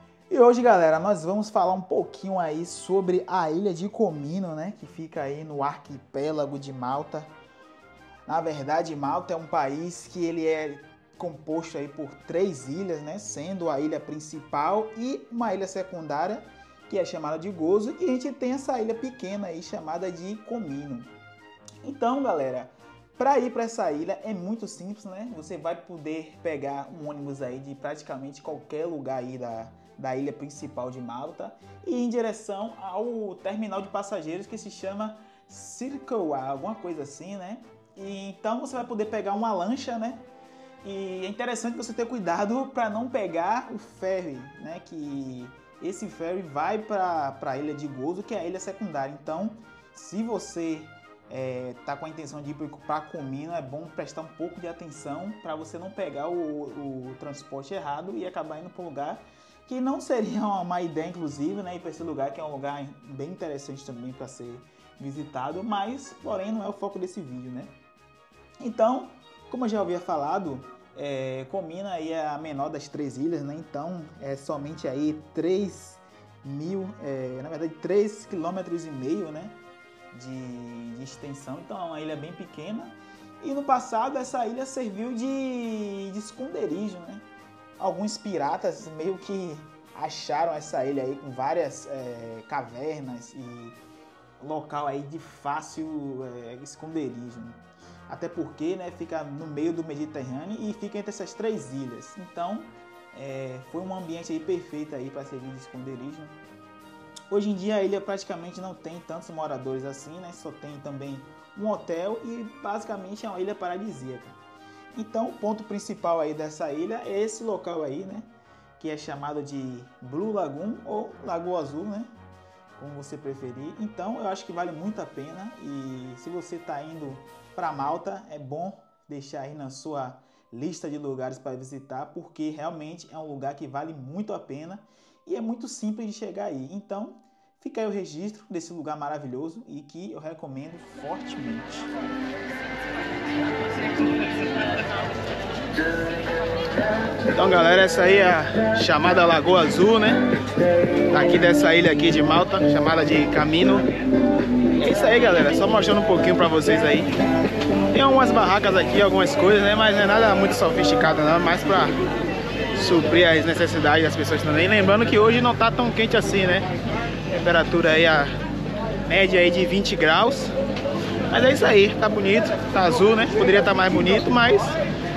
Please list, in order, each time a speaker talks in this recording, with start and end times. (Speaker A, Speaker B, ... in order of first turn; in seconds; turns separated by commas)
Speaker A: 0.3-7.3, Speaker A: 8.2-21.1, Speaker A: 21.8-40.2, Speaker A: 40.8-67.7, Speaker A: 68.6-79.6, Speaker A: 80.1-87.2, Speaker A: 87.8-93.8, Speaker A: 94.4-106.4, Speaker A: 107.3-114.4, Speaker A: 114.9-118.3, Speaker A: 118.8-122.1, Speaker A: 122.8-141.9, Speaker A: 147.3-150.2, Speaker A: 151.1-153.9, Speaker A: 154.8-157.2, Speaker A: 157.9-161.9, Speaker A: 162.7-166.7, Speaker A: 167.3-168.3, Speaker A: 169.1-170.5, Speaker A: 171.3-174.8